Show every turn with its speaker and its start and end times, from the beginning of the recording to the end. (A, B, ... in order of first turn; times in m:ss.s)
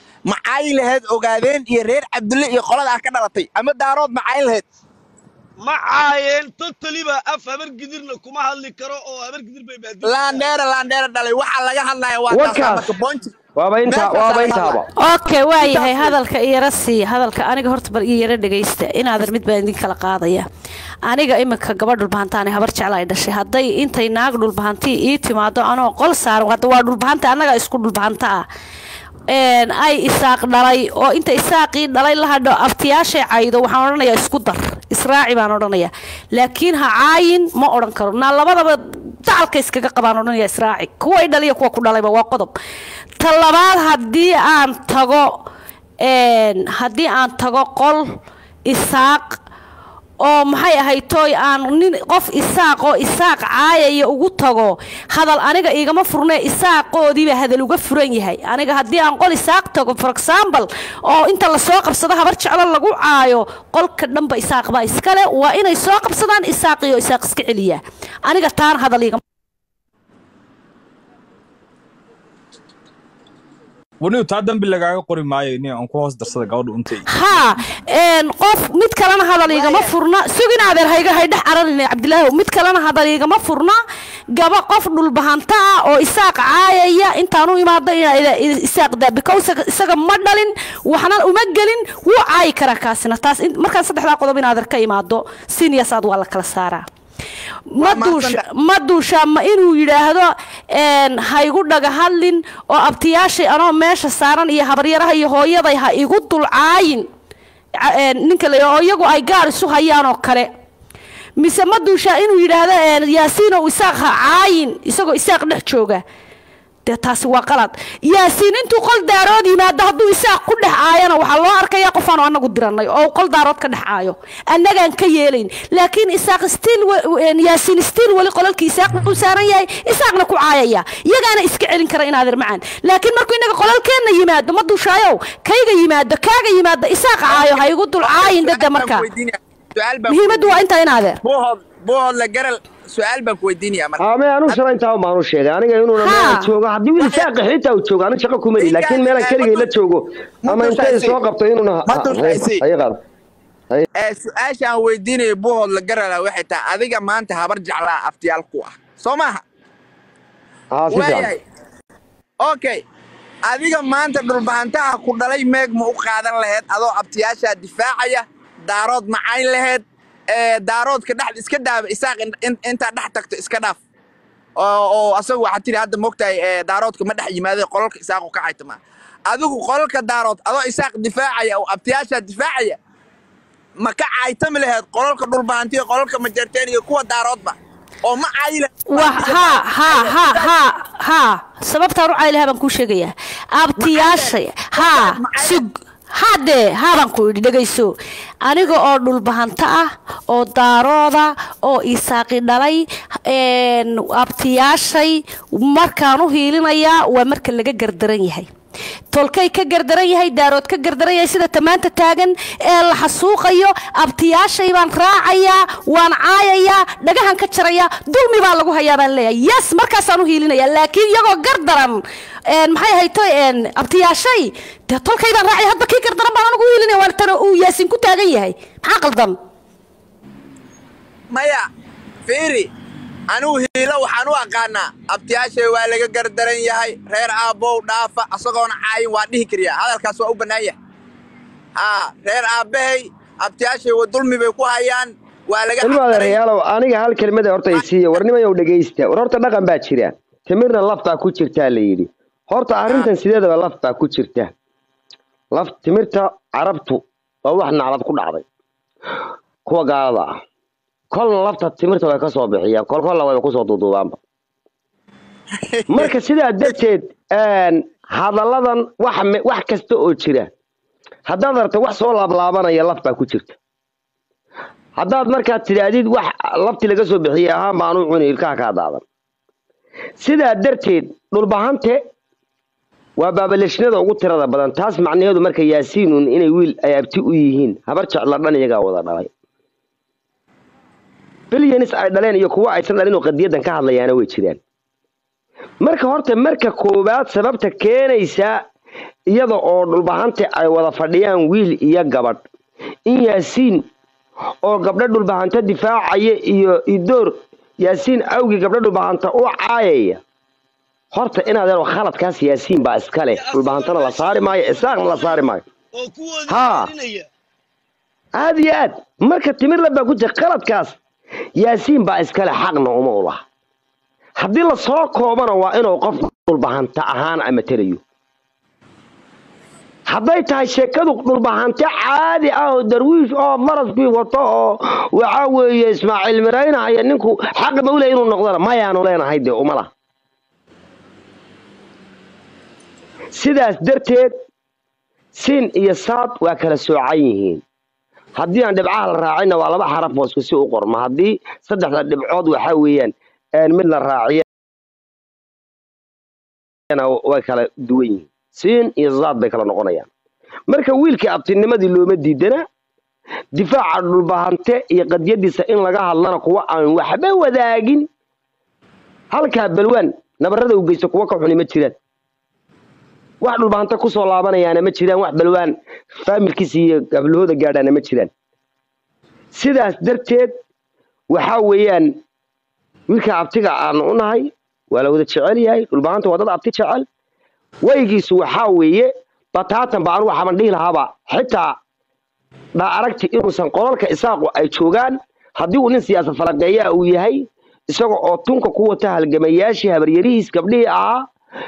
0:00.3-0:04.6 A
0:05.6-0:10.5 B
0:10.0-0:13.3 A
0:12.3-0:12.9 C
0:13.6-0:14.9 C
0:13.9-0:14.8 A
0:15.0-0:20.4 D
0:15.5-0:16.2 A
0:21.0-0:28.4 D
0:29.3-0:42.5 D
0:43.2-0:45.4 D
0:46.0-0:48.0 D
0:48.7-0:49.4 D
0:50.2-1:09.2 D
1:14.0-1:16.8 E
1:17.0-1:23.8 D
1:24.3-1:36.8 D
1:37.7-1:47.1 D
1:37.8-1:38.4 A
1:47.8-1:50.5 D
1:51.4-1:56.0 D
1:56.9-2:19.1 D
2:17.3-2:20.6 A
2:20.1-2:21.2 D
2:21.2-2:24.6 A
2:24.0-2:33.0 C
2:26.0-2:26.5 D
2:27.0-2:27.3 A
2:28.6-2:29.7 A
2:30.4-2:31.2 A
2:31.9-2:32.6 A
2:34.0-2:39.4 A
2:40.8-2:41.3 C
2:40.9-2:41.4 A
2:42.4-2:42.8 A
2:43.4-2:53.8 A
2:54.6-3:02.8 A
3:03.8-3:10.5 A
3:08.9-3:28.5 D
3:13.8-3:15.6 A
3:29.1-3:49.4 D
3:51.3-3:51.6 A
3:52.3-3:52.7 A
3:53.3-4:00.8 A
4:01.8-4:06.4 A
4:05.8-4:14.5 C
4:15.5-4:18.4 C
4:19.6-4:20.3 C
4:21.1-4:24.2 C
4:25.6-4:26.1 A
4:25.9-4:30.5 C
4:31.3-4:33.6 C
4:35.0-4:39.0 C
4:40.2-4:42.0 C
4:43.2-4:49.3 C
4:51.5-4:54.6 C
4:55.8-4:58.6 C
4:59.3-5:02.4 C
5:03.1-5:03.8 C
5:04.6-5:10.2 C
5:11.1-5:15.6 C
5:13.3-5:17.3 B
5:16.5-5:16.9 C
5:18.4-5:21.0 C
5:21.6-5:23.4 C
5:24.4-5:28.0 C
5:30.1-5:39.9 C
5:43.4-5:44.3 C
5:45.4-5:47.6 C
5:48.4-5:54.4 C
5:56.9-6:00.1 C
6:00.7-6:02.6 C
6:03.5-6:08.1 C
6:09.3-6:12.0 C
6:13.4-6:18.3 C
6:19.5-6:20.5 C
6:21.3-6:22.2 C
6:23.1-6:27.1 C
6:27.8-6:31.8 C
6:32.8-6:41.3 C